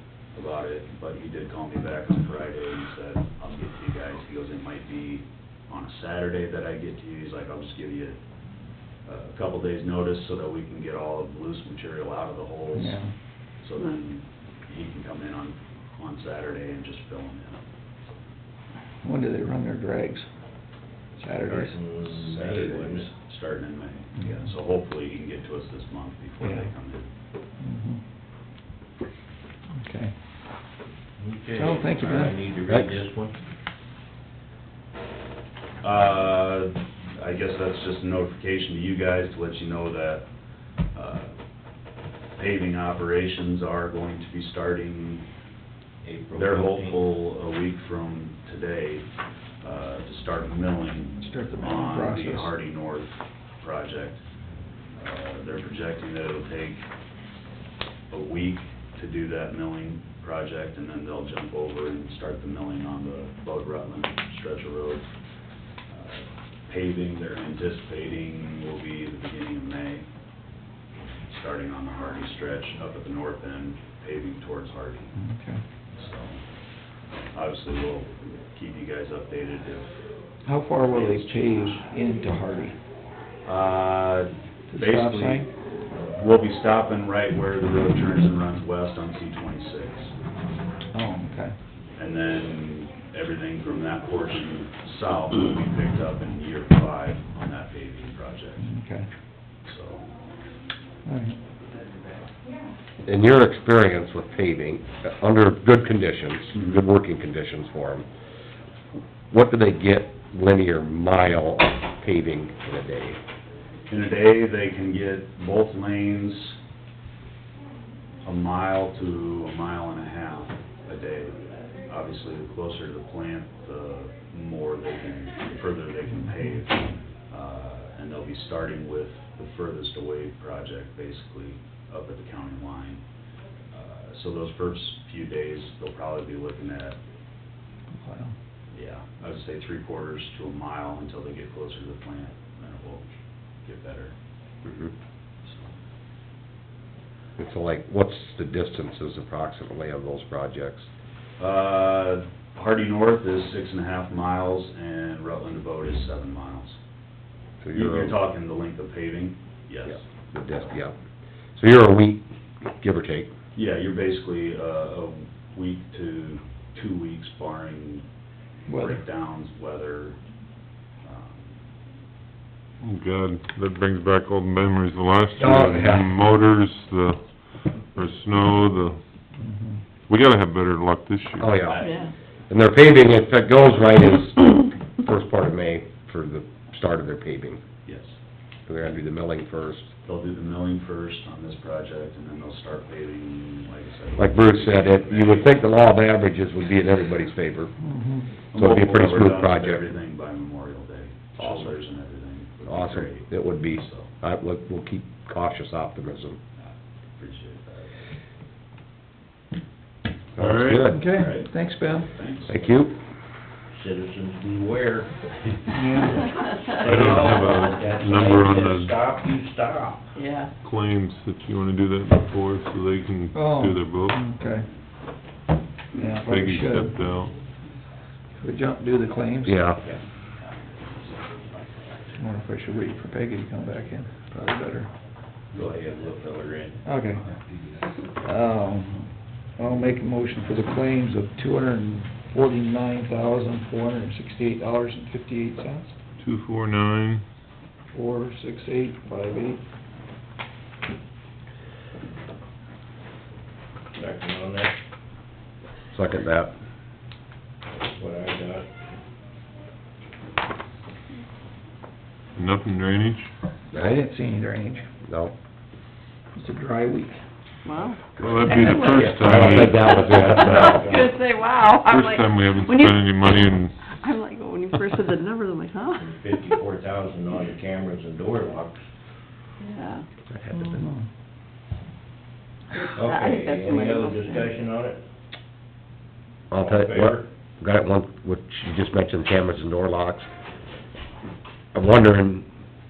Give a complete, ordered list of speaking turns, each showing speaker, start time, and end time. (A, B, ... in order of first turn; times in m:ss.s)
0:00.3-0:08.2 A
0:09.0-0:13.0 A
0:12.7-0:13.1 B
0:13.6-0:17.6 A
0:19.0-0:20.3 B
0:21.2-0:21.8 B
0:21.4-0:23.1 C
0:22.0-0:27.1 A
0:24.2-0:24.5 B
0:26.4-0:26.7 B
0:27.6-0:28.0 B
0:29.8-0:30.1 B
0:31.2-0:33.4 C
0:31.5-0:32.4 B
0:32.7-0:33.0 D
0:35.8-0:40.3 A
0:40.9-0:41.3 A
0:42.4-0:45.2 A
0:46.0-0:47.0 C
0:46.3-0:49.0 A
0:49.6-0:54.2 A
0:51.2-0:52.5 B
0:54.9-0:56.8 A
0:58.1-1:05.0 A
1:05.9-1:10.1 A
1:11.3-1:15.1 A
1:15.2-1:15.6 B
1:15.9-1:16.4 A
1:17.3-1:20.0 A
1:20.4-1:22.8 B
1:20.8-1:21.8 A
1:23.4-1:25.5 A
1:24.7-1:25.5 B
1:26.1-1:30.1 A
1:30.9-1:31.5 B
1:32.0-1:38.7 A
1:38.6-1:39.1 B
1:39.6-1:40.1 A
1:41.0-1:41.4 B
1:43.0-1:48.1 D
1:49.3-1:53.2 D
1:53.9-1:56.6 A
1:58.2-2:13.0 A
2:13.7-2:17.0 A
2:18.0-2:18.3 B
2:18.7-2:23.1 A
2:23.6-2:24.1 A
2:24.6-2:24.9 D
2:25.4-2:25.7 A
2:27.4-2:30.9 D
2:31.4-2:36.8 A
2:37.6-2:38.2 D
2:37.7-2:40.1 A
2:40.3-2:41.0 D
2:41.6-2:43.3 D
2:43.5-2:48.0 A
2:48.7-2:49.0 B
2:48.7-2:50.2 A
2:51.0-2:51.5 A
2:52.8-2:59.0 E
2:55.4-2:56.1 B
2:59.4-2:59.8 B
3:00.1-3:01.7 E
3:01.4-3:01.9 D
3:01.6-3:02.1 A
3:01.7-3:02.1 F
3:02.5-3:07.6 D
3:07.8-3:08.2 A
3:08.7-3:09.9 D
3:10.0-3:15.6 A
3:14.2-3:17.7 D
3:17.8-3:18.3 B
3:18.5-3:19.8 D
3:18.5-3:24.1 A
3:21.4-3:21.7 D
3:22.7-3:26.4 D
3:26.6-3:27.9 A
3:30.4-3:31.1 D
3:30.4-3:30.9 E
3:30.9-3:32.1 B
3:31.1-3:31.4 C
3:32.0-3:32.8 A
3:32.5-3:32.9 D
3:33.7-3:40.2 C
3:35.7-3:36.2 B
3:36.8-3:38.9 E
3:40.1-3:40.5 F
3:40.6-3:44.2 E
3:43.3-3:44.7 B
3:46.0-3:46.9 B
3:46.2-3:47.4 E
3:48.4-3:49.6 B
3:49.4-3:49.8 D
3:52.2-3:54.9 B
3:55.5-3:56.8 C
3:56.8-3:57.3 B
3:58.2-4:05.9 B
4:06.2-4:07.2 E
4:07.9-4:09.6 B
4:13.9-4:14.8 C
4:15.9-4:16.5 D
4:17.7-4:18.7 C
4:22.3-4:23.3 E
4:23.7-4:24.0 D
4:23.8-4:24.9 B
4:25.0-4:25.3 D
4:26.3-4:27.2 B
4:27.6-4:33.0 F
4:28.1-4:29.8 E
4:28.2-4:31.1 D
4:30.1-4:31.1 C
4:31.8-4:33.9 E
4:33.9-4:36.5 F
4:35.9-4:38.8 C
4:39.6-4:40.0 F
4:40.4-4:40.8 D
4:40.5-4:41.0 B
4:42.7-4:44.5 F
4:42.8-4:45.0 C
4:46.5-4:50.3 D
4:46.5-4:47.3 C
4:51.7-4:52.5 D